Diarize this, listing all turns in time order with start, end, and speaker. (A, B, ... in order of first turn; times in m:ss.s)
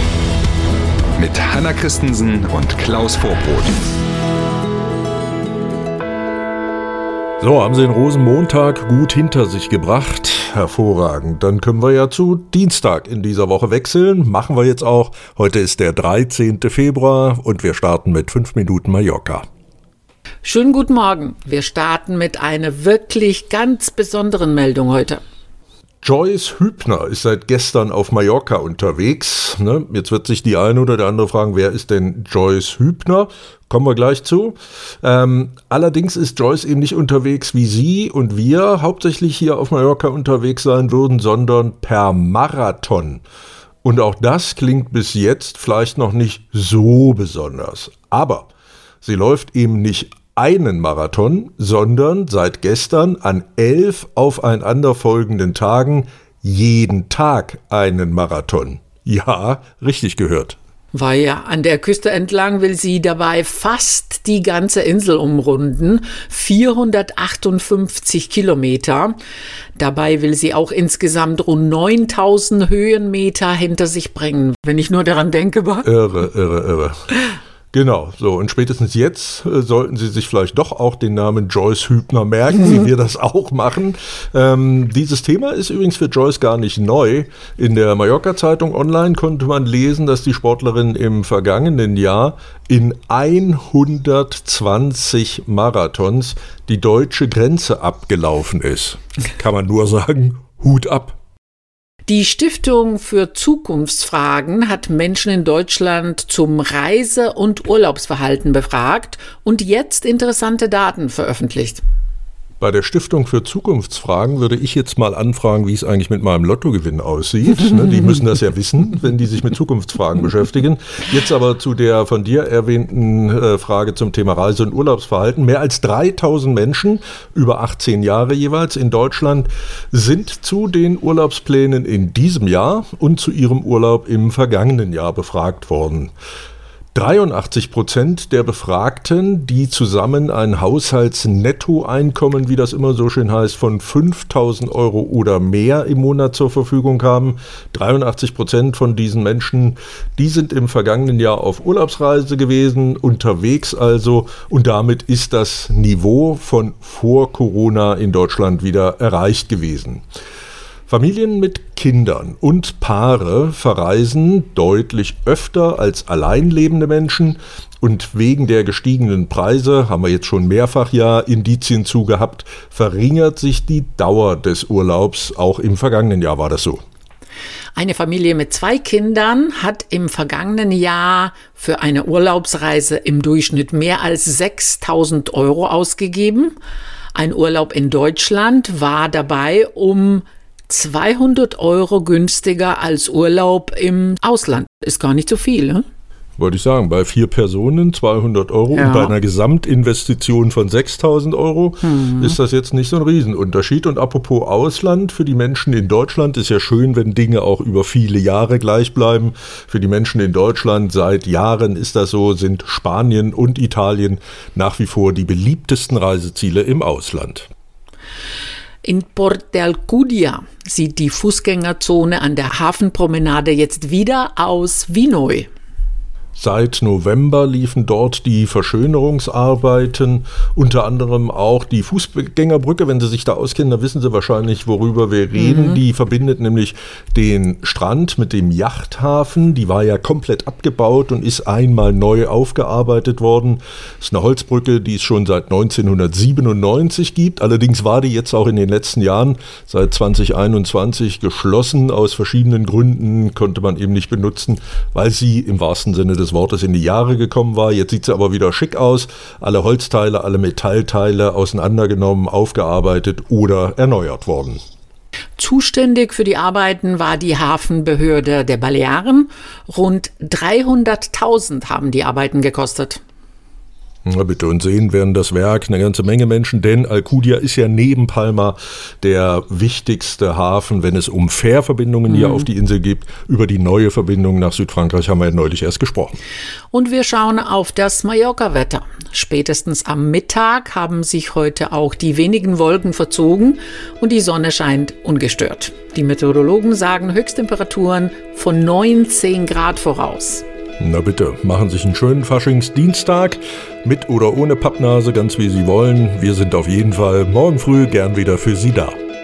0:01.2-0:03.8 A
0:07.4-0:19.5 B
0:20.4-0:25.2 C
0:26.0-0:43.2 B
0:43.8-0:48.5 B
0:49.0-1:00.6 B
1:00.9-1:09.2 C
1:09.8-1:15.9 C
1:15.8-1:17.1 B
1:17.7-1:41.2 B
1:42.1-1:51.8 C
1:52.6-2:16.1 B
2:17.0-2:40.0 B
2:40.9-2:56.8 B
2:57.8-3:06.6 C
3:07.1-3:15.8 C
3:16.4-3:37.5 B
3:18.7-3:19.1 C
3:38.8-3:45.5 C
3:46.4-4:24.6 B
4:25.4-4:33.0 C
4:34.0-4:46.2 B
4:46.7-5:00.4 C
5:00.8-5:09.0 B